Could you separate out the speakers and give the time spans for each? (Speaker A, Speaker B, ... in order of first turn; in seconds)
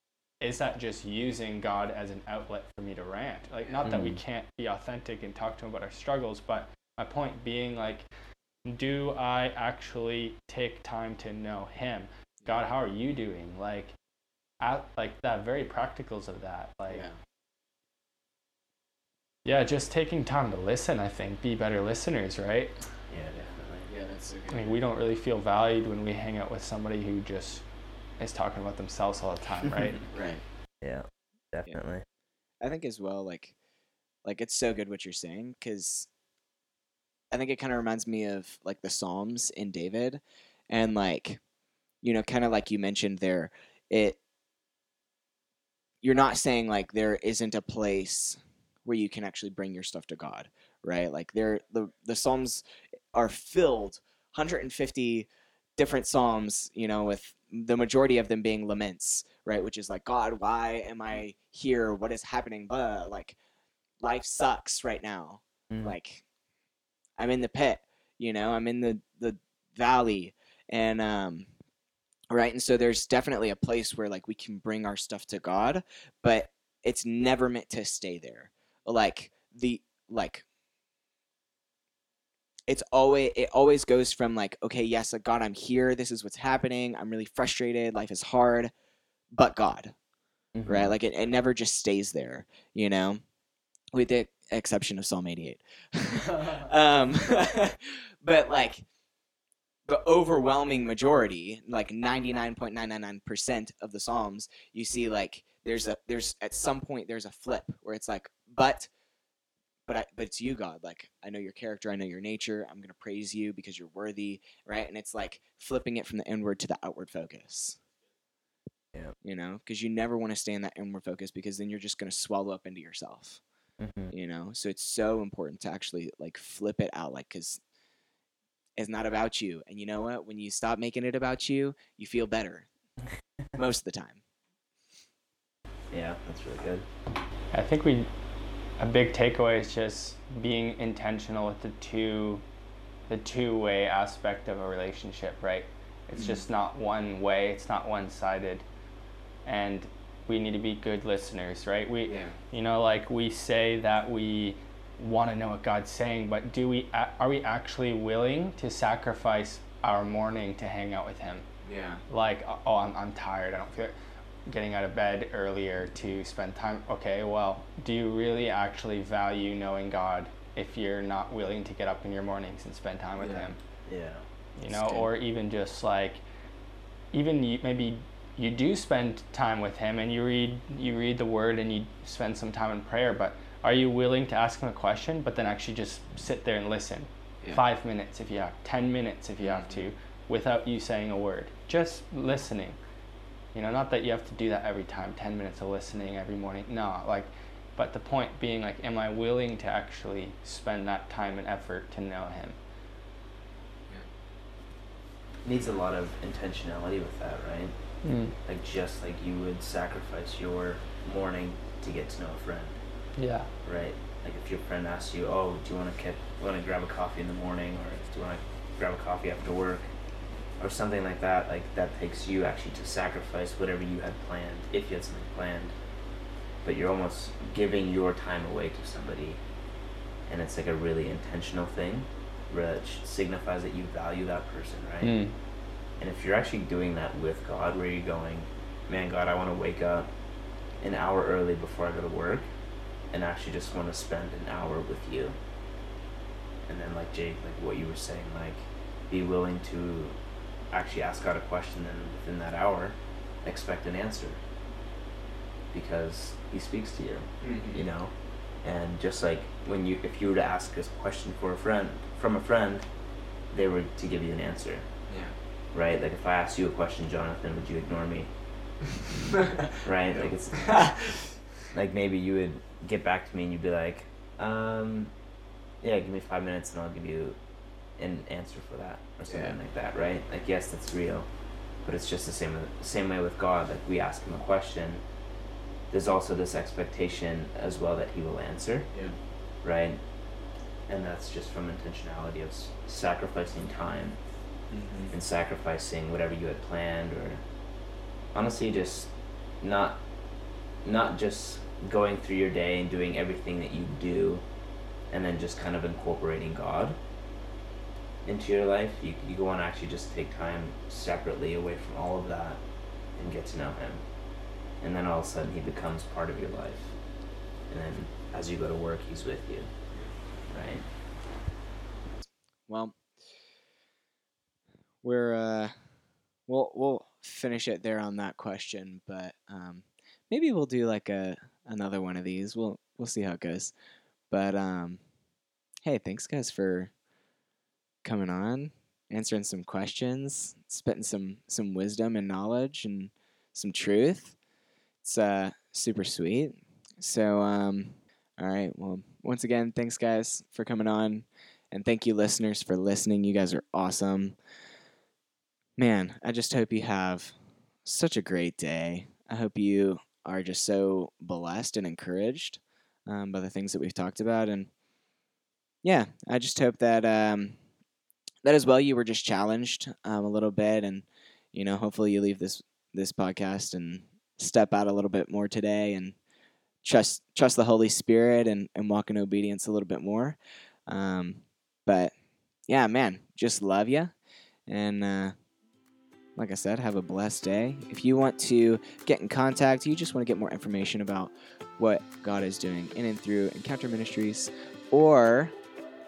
Speaker A: 0.4-8.1, 8.7-13.9, 14.6-17.1, 19.4-22.8, 24.5-27.6, 28.2-30.0, 137.5-138.1, 138.8-142.4, 143.1-148.7, 149.5-161.5, 162.1-163.9, 164.5-173.6, 174.6-176.2, 177.1-192.8, 193.6-202.6, 208.0-208.3, 213.2-213.5, 235.0-235.3
Speaker B: 3.8-4.2, 23.1-23.9, 30.8-32.0, 65.7-66.0, 90.5-91.0, 123.8-124.1, 135.9-136.9, 173.9-174.2, 205.4-207.7, 208.5-212.8, 213.6-219.9, 220.6-225.7, 226.6-229.4, 230.3-235.2, 236.0-240.1, 240.8-242.5, 243.1-245.4, 246.7-250.2, 250.7-254.4, 255.7-258.1, 258.6-262.9, 263.5-264.9, 265.7-268.3, 269.8-271.0, 271.7-275.1, 275.8-277.4, 278.0-281.3, 281.8-285.0, 285.9-288.9, 289.6-290.0, 290.9-294.2, 295.1-297.4, 298.3-299.1, 299.6-300.0, 300.9-304.4, 305.1-307.0, 308.2-312.6, 313.2-314.0, 314.8-316.9, 317.7-319.7, 320.5-320.9
Speaker C: 16.9-17.2, 23.9-24.7, 30.1-30.4, 32.6-33.5, 34.2-36.1, 37.3-41.4, 42.0-44.2, 46.0-63.4, 64.0-66.2, 67.2-71.5, 72.3-80.5, 82.7-88.7, 89.3-90.0, 90.7-93.2, 93.9-98.8, 99.9-108.9, 109.9-117.8, 119.2-123.4, 124.1-127.6, 128.8-132.7, 133.6-134.2, 146.2-146.5, 152.1-152.4, 161.7-162.0, 174.7-175.1, 189.4-189.8, 257.4-257.9, 265.1-265.3, 269.3-271.2, 279.3-279.6, 294.7-295.1, 322.2-323.0, 325.0-333.7, 334.3-335.0, 335.8-336.9, 338.0-344.4, 345.0-354.4, 355.8-364.7, 365.8-367.6, 368.4-376.2, 376.8-380.4, 380.9-382.1, 382.7-384.1, 384.7-385.4, 386.4-395.5